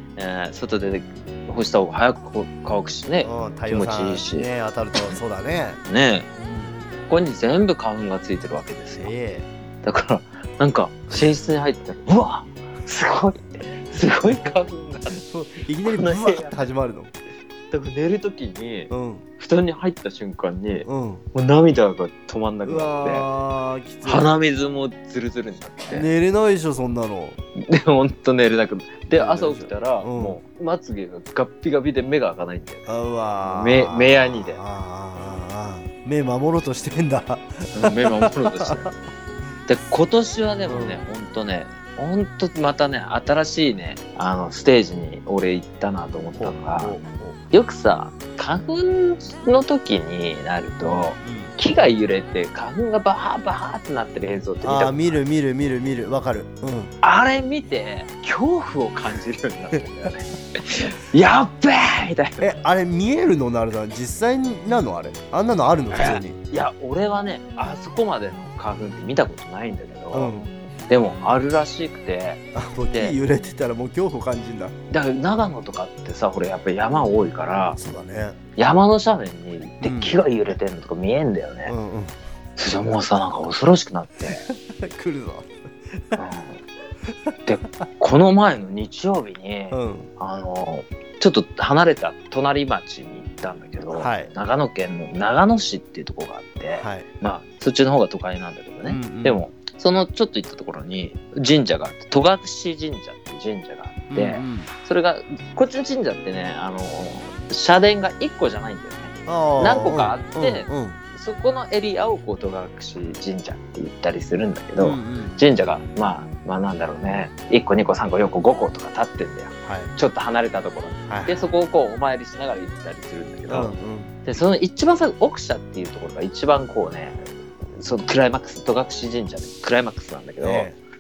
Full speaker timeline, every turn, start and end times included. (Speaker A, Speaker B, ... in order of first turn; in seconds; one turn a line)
Speaker A: 0.2-4.5
Speaker B: 3.2-5.8
Speaker A: 5.9-6.3
Speaker B: 6.3-6.8
Speaker A: 7.1-9.1
Speaker B: 9.0-9.5
Speaker A: 9.8-15.2
Speaker B: 15.2-17.1
Speaker A: 15.8-16.6
Speaker A: 17.7-23.3
Speaker B: 18.9-19.3
Speaker B: 20.8-21.2
Speaker B: 22.6-24.3
Speaker A: 24.1-26.1
Speaker B: 25.9-27.4
Speaker A: 27.6-32.9
Speaker B: 29.1-30.4
Speaker B: 32.9-39.0
Speaker A: 33.4-34.6
Speaker A: 37.7-38.9
Speaker A: 39.7-47.0
Speaker B: 40.7-41.0
Speaker B: 46.4-47.4
Speaker A: 47.5-55.2
Speaker B: 50.8-51.5
Speaker B: 54.6-56.9
Speaker A: 57.0-62.5
Speaker B: 62.4-66.4
Speaker A: 65.9-70.4
Speaker B: 70.1-70.5
Speaker A: 70.9-73.2
Speaker B: 72.5-74.8
Speaker A: 74.9-77.8
Speaker B: 77.8-78.4
Speaker A: 78.6-81.7
Speaker B: 79.8-80.2
Speaker B: 81.7-82.2
Speaker A: 82.6-84.4
Speaker B: 84.3-85.5
Speaker A: 86.2-86.6
Speaker A: 87.5-123.7
Speaker B: 89.7-90.1
Speaker B: 93.9-94.3
Speaker B: 96.8-97.1
Speaker B: 98.9-99.4
Speaker B: 104.1-104.7
Speaker B: 109.3-111.0
Speaker B: 114.8-115.4
Speaker B: 119.7-119.9
Speaker B: 121.1-121.5
Speaker B: 123.5-124.1
Speaker A: 124.2-130.7
Speaker B: 130.4-130.8